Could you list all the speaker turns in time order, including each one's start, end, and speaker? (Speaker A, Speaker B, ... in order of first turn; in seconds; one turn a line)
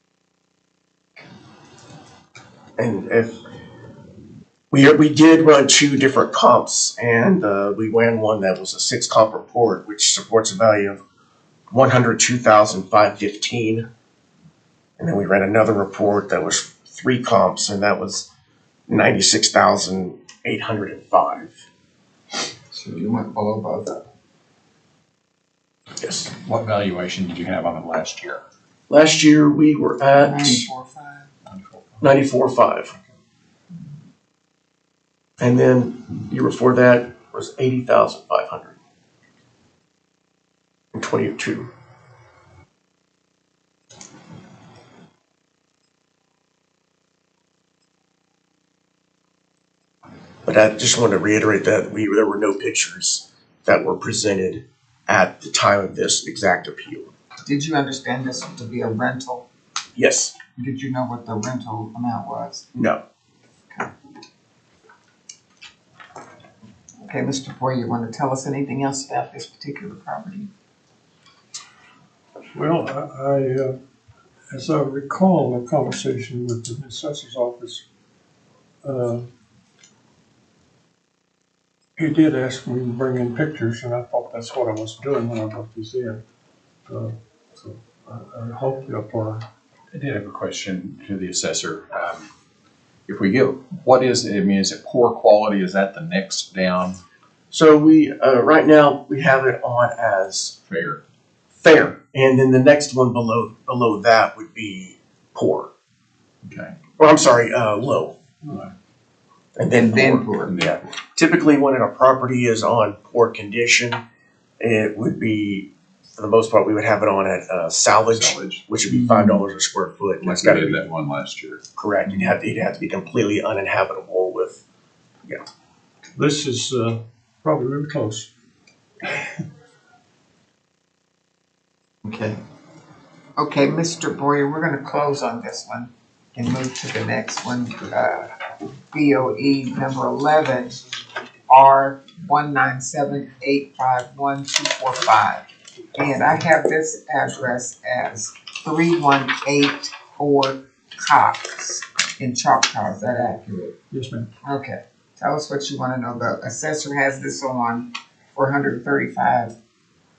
Speaker A: 2.8-3.4
Speaker A: 4.7-11.0
Speaker A: 11.7-13.9
Speaker A: 15.0-18.3
Speaker A: 18.9-21.6
Speaker B: 22.7-24.0
Speaker A: 26.0-26.3
Speaker C: 26.3-28.4
Speaker A: 28.9-30.7
Speaker B: 30.2-31.3
Speaker A: 32.0-32.9
Speaker A: 35.4-38.8
Speaker A: 40.9-41.7
Speaker A: 50.5-57.1
Speaker B: 57.5-59.5
Speaker A: 60.0-60.4
Speaker B: 60.6-62.7
Speaker A: 62.7-63.0
Speaker B: 67.0-70.5
Speaker D: 72.5-73.8
Speaker D: 74.5-77.8
Speaker D: 78.8-79.3
Speaker D: 82.0-86.2
Speaker D: 86.9-89.5
Speaker C: 89.9-92.3
Speaker C: 93.1-97.0
Speaker A: 97.5-100.5
Speaker C: 100.7-101.0
Speaker A: 101.6-105.7
Speaker C: 106.5-106.8
Speaker A: 107.0-108.2
Speaker D: 108.4-108.7
Speaker A: 109.6-114.0
Speaker B: 109.7-110.5
Speaker C: 110.3-110.8
Speaker A: 114.6-120.8
Speaker C: 118.1-118.6
Speaker C: 120.2-121.6
Speaker A: 121.8-124.6
Speaker D: 126.2-128.3
Speaker B: 132.1-132.4
Speaker B: 133.4-138.3
Speaker B: 138.9-140.8
Speaker B: 141.5-145.4
Speaker B: 146.0-153.8
Speaker D: 153.9-154.3
Speaker B: 154.4-159.5